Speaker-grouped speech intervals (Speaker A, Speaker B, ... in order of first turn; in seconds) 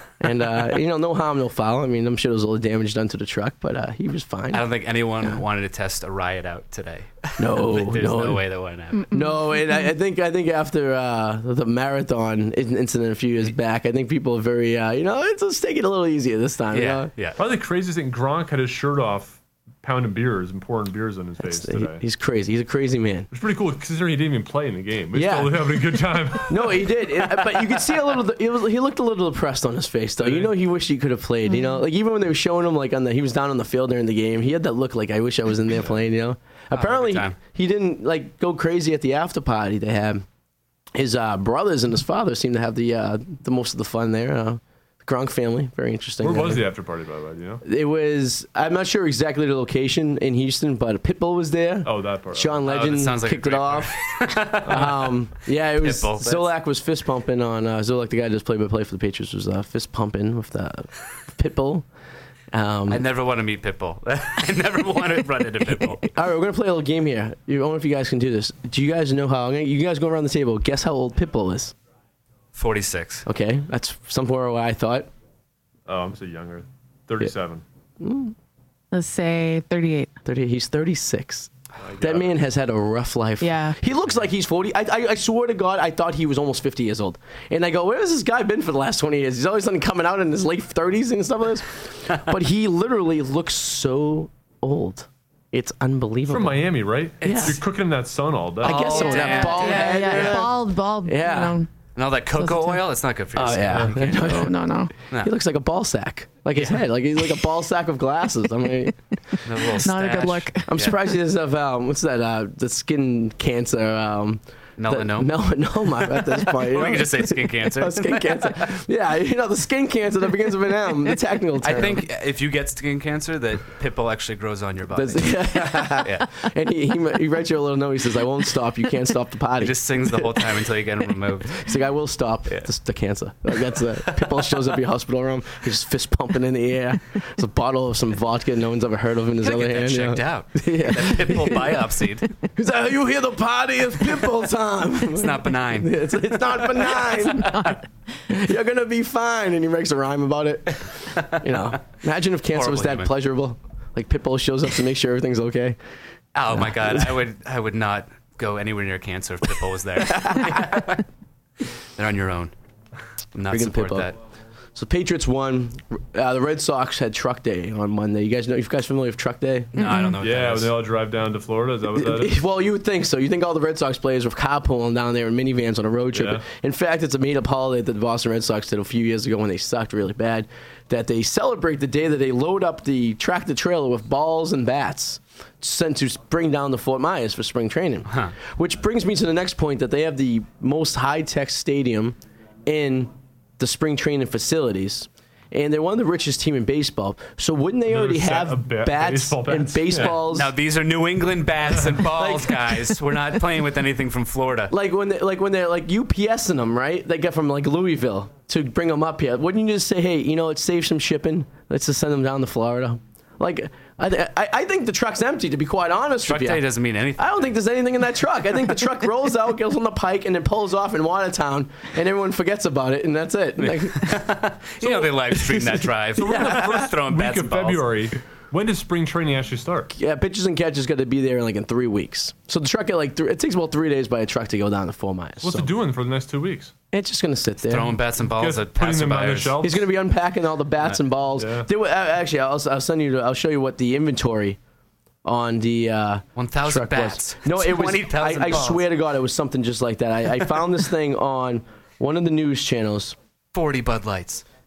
Speaker A: 0.2-4.7, 7.4-8.4, 9.1-17.1, 21.4-23.3, 25.1-40.2, 40.9-46.6, 47.6-53.9, 54.6-61.9, 62.5-63.0, 66.0-71.7, 73.2-75.1, 78.0-78.3, 80.2-97.6, 98.6-101.6, 103.3-104.6, 105.1-108.9, 110.7-122.0, 124.9-130.5, 131.5-141.9, 142.5-147.7, 148.3-155.8, 156.5-157.1, 160.1-160.7, 163.5-164.1, 164.7-169.7, 171.9-200.5, 202.2-202.8, 204.7-216.6, 217.2-224.2, 224.8-226.8, 229.9-235.7, 236.9-238.0, 239.6-244.6, 245.2-253.2
Speaker B: 4.5-9.2, 16.7-17.4, 36.7-37.3, 52.6-55.1, 55.8-56.5, 62.9-66.1, 72.5-73.2, 97.2-97.5, 98.6-100.4, 102.0-104.5, 109.4-110.9, 114.8-118.7, 121.6-126.3, 129.6-131.7, 134.1-134.5, 139.4-142.3, 145.1-147.6, 152.5-153.1, 156.3-161.0, 161.9-162.5, 163.3-164.2, 169.7-170.7, 188.1-188.3, 200.0-204.7, 216.3-217.6, 223.6-227.8, 237.6-239.6, 246.4-248.8, 253.5-254.4
Speaker C: 9.1-9.9, 31.5-31.8, 78.9-80.1, 83.4-83.8, 98.8-101.7, 102.3-102.8, 104.0-104.9, 109.8-110.8, 147.5-147.8, 169.8-170.1
Speaker D: 17.4-22.0, 23.3-27.0, 30.2-30.5, 46.2-47.6, 51.8-52.6, 54.6-54.9, 75.9-77.6, 81.8-82.3, 96.3-99.1, 170.2-172.4, 176.1-176.4, 197.9-200.2, 224.8-225.5, 226.2-229.9, 235.4-236.7, 238.4-239.8, 241.4-241.7, 248.5-248.8